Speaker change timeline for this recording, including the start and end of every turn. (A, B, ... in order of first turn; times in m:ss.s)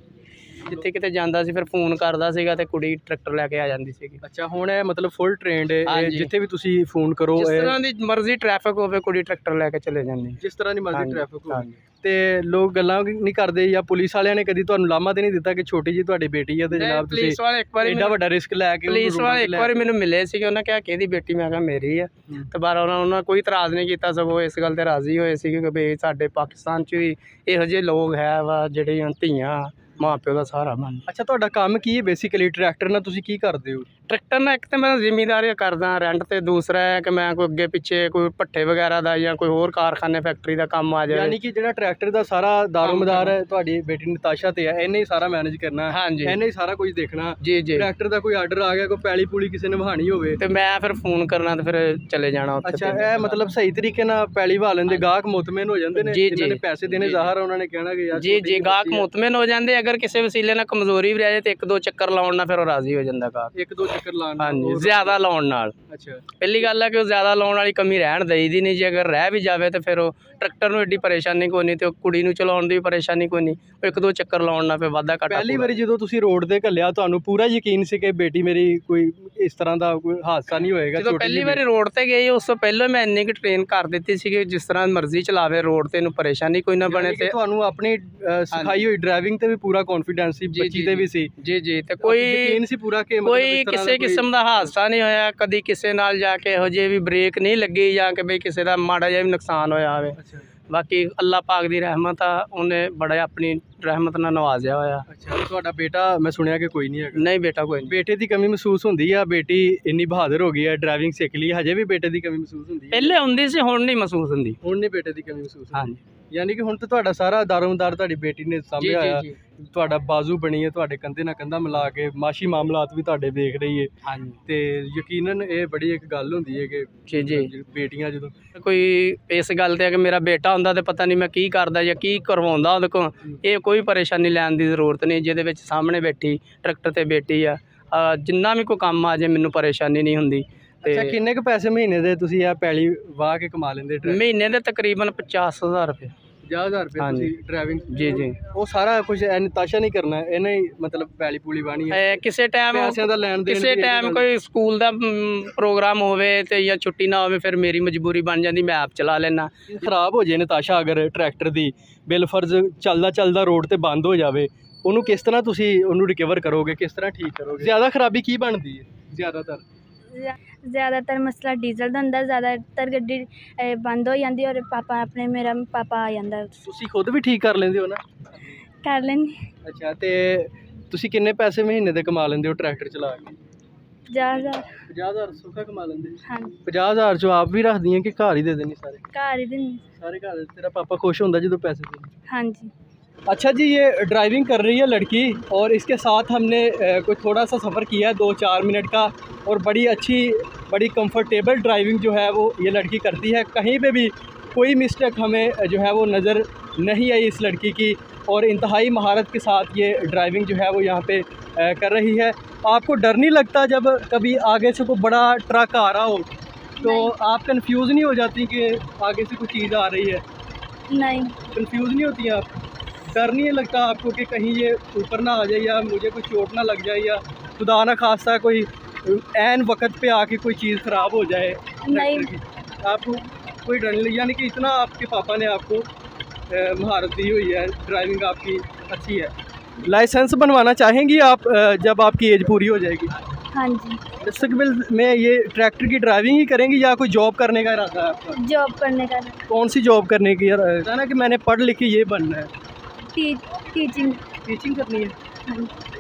0:00.6-0:04.2 A
0:04.2-0:07.8 B
0:05.9-0:06.3 A
0:07.4-0:10.4 A
0:10.4-0:19.8 B
0:10.9-0:11.7 A
0:16.7-0:18.2 A
0:18.9-0:31.0 A
0:31.1-0:33.9 B
0:34.1-0:41.4 A
0:41.1-0:50.4 B
0:42.8-0:43.4 A
0:45.9-0:46.4 A
0:47.4-0:47.9 A
0:50.4-0:53.4 A
0:52.6-0:59.1 B
0:56.0-0:57.3 A
0:58.1-1:03.5 A
1:03.6-1:05.2 B
1:04.4-1:05.7 A
1:05.9-1:06.3 B
1:06.4-1:15.8 A
1:15.3-1:21.6 B
1:21.0-1:27.3 A
1:26.9-1:31.3 B
1:28.5-1:28.8 A
1:30.5-1:32.6 A
1:32.0-1:34.2 B
1:33.2-1:40.2 A
1:40.2-1:40.5 B
1:40.7-1:45.1 A
1:45.1-1:47.3 B
1:47.2-1:47.9 A
1:47.8-1:53.2 B
1:52.9-1:54.6 A
1:54.6-2:03.9 B
1:55.7-1:56.0 A
1:58.8-1:59.4 A
2:04.0-2:04.4 A
2:04.4-2:08.4 B
2:07.1-2:07.5 A
2:08.5-2:21.2 A
2:20.8-2:24.2 B
2:24.0-2:26.1 A
2:26.5-2:32.0 B
2:27.0-2:27.3 A
2:27.9-2:28.4 A
2:31.9-2:39.5 A
2:32.7-2:34.3 B
2:39.7-2:49.6 B
2:50.1-2:56.6 C
2:56.6-2:58.6 B
2:58.8-2:59.5 C
2:59.6-3:03.4 B
3:04.1-3:04.8 C
3:04.8-3:09.0 B
3:06.2-3:06.6 C
3:09.1-3:09.8 C
3:10.0-3:12.1 B
3:12.3-3:12.7 C
3:13.3-3:36.3 B
3:36.8-3:37.1 C
3:36.8-3:40.2 B
3:40.9-3:41.4 C
3:41.5-3:42.5 B
3:43.1-3:55.9 B
3:51.8-3:52.3 C
3:56.5-4:03.2 B
4:03.5-4:04.0 C
4:04.2-4:08.4 B
4:08.3-4:09.4 C
4:09.5-4:12.5 B
4:13.1-4:14.2 C
4:14.4-4:15.2 B
4:15.5-4:15.7 C